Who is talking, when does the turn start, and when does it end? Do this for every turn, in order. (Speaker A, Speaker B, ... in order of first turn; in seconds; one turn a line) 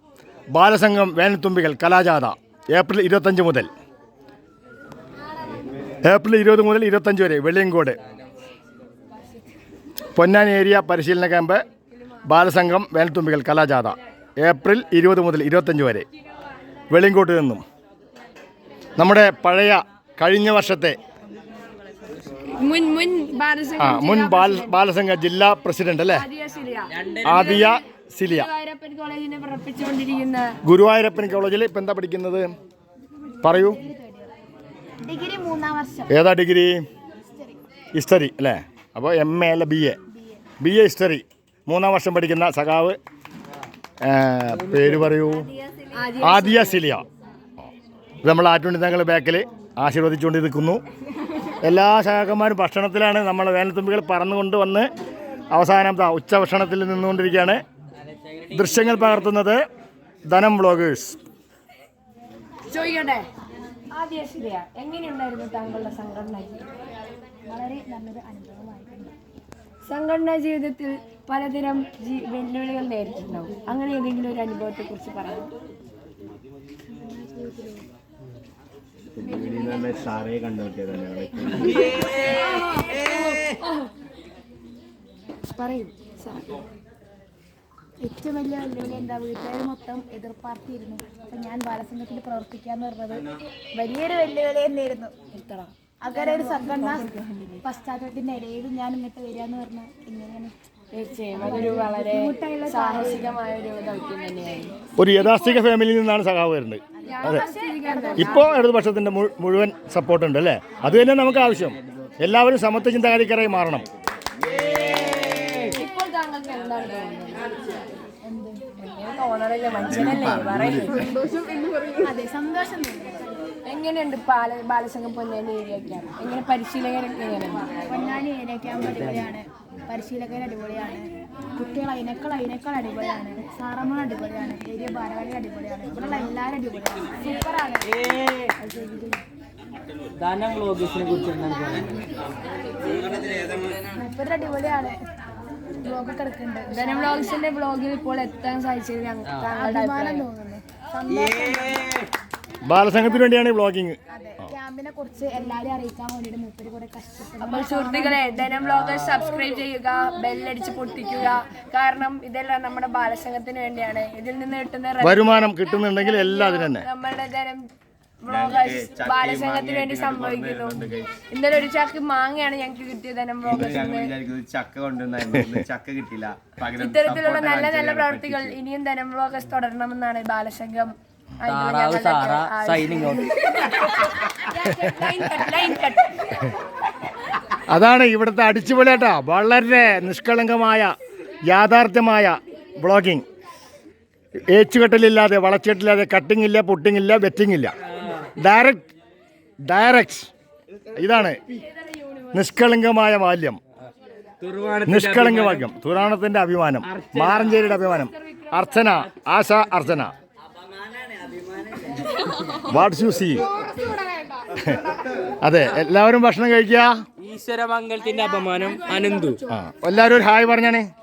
Speaker A: 0.5-3.7
Speaker A: 6.0-8.0
Speaker A: 10.1-11.6
Speaker A: 12.2-16.1
Speaker A: 16.9-17.6
Speaker A: 19.0-21.0
Speaker B: 22.5-24.8
Speaker A: 23.8-26.3
Speaker B: 26.1-30.6
Speaker C: 27.0-27.2
Speaker A: 27.2-28.5
Speaker A: 30.6-32.5
Speaker A: 33.4-33.8
Speaker D: 33.4-34.3
Speaker D: 35.0-36.1
Speaker A: 36.1-36.9
Speaker D: 37.3-37.6
Speaker A: 37.9-40.0
Speaker D: 40.1-40.4
Speaker A: 40.6-43.0
Speaker A: 44.0-45.6
Speaker C: 44.5-45.1
Speaker B: 45.8-46.8
Speaker A: 46.2-47.0
Speaker A: 48.2-50.8
Speaker A: 51.6-54.9
Speaker A: 55.5-57.6
Speaker A: 58.5-59.6
Speaker A: 60.3-61.2
Speaker B: 62.7-63.2
Speaker B: 63.9-66.6
Speaker D: 67.5-69.1
Speaker B: 69.9-75.5
Speaker D: 76.9-77.8
Speaker E: 79.2-82.0
Speaker B: 79.2-80.0
Speaker B: 82.0-83.8
Speaker B: 85.5-86.5
Speaker D: 88.0-95.1
Speaker B: 95.3-97.6
Speaker D: 96.0-100.5
Speaker B: 100.9-104.8
Speaker D: 101.3-103.4
Speaker A: 105.0-107.4
Speaker D: 107.0-108.5
Speaker B: 107.0-108.5
Speaker A: 108.1-113.8
Speaker B: 115.5-117.4
Speaker D: 118.2-118.7
Speaker B: 118.8-121.1
Speaker E: 119.7-121.1
Speaker D: 121.9-123.3
Speaker B: 123.7-127.7
Speaker D: 127.9-137.9
Speaker C: 137.9-138.6
Speaker D: 138.7-139.0
Speaker C: 140.2-142.0
Speaker D: 143.9-145.0
Speaker D: 145.8-147.4
Speaker B: 146.7-150.2
Speaker D: 149.4-151.9
Speaker C: 151.8-152.1
Speaker A: 152.6-154.0
Speaker D: 154.1-158.7
Speaker B: 157.4-167.6
Speaker A: 165.0-166.9
Speaker B: 168.2-174.1
Speaker E: 168.3-171.1
Speaker E: 173.4-178.6
Speaker B: 176.7-186.5
Speaker C: 181.4-183.5
Speaker A: 184.8-185.1
Speaker A: 187.7-190.9
Speaker A: 191.5-193.2
Speaker A: 194.5-197.7
Speaker A: 198.4-198.9
Speaker A: 199.7-200.3
Speaker A: 200.9-201.4
Speaker B: 201.7-202.4
Speaker A: 202.3-203.6
Speaker C: 204.4-205.7
Speaker A: 204.8-210.1
Speaker C: 206.9-207.6
Speaker B: 207.8-208.8
Speaker A: 212.6-213.4
Speaker A: 214.5-214.8
Speaker A: 215.4-216.9
Speaker C: 217.2-219.4
Speaker B: 218.1-219.4
Speaker A: 219.5-220.9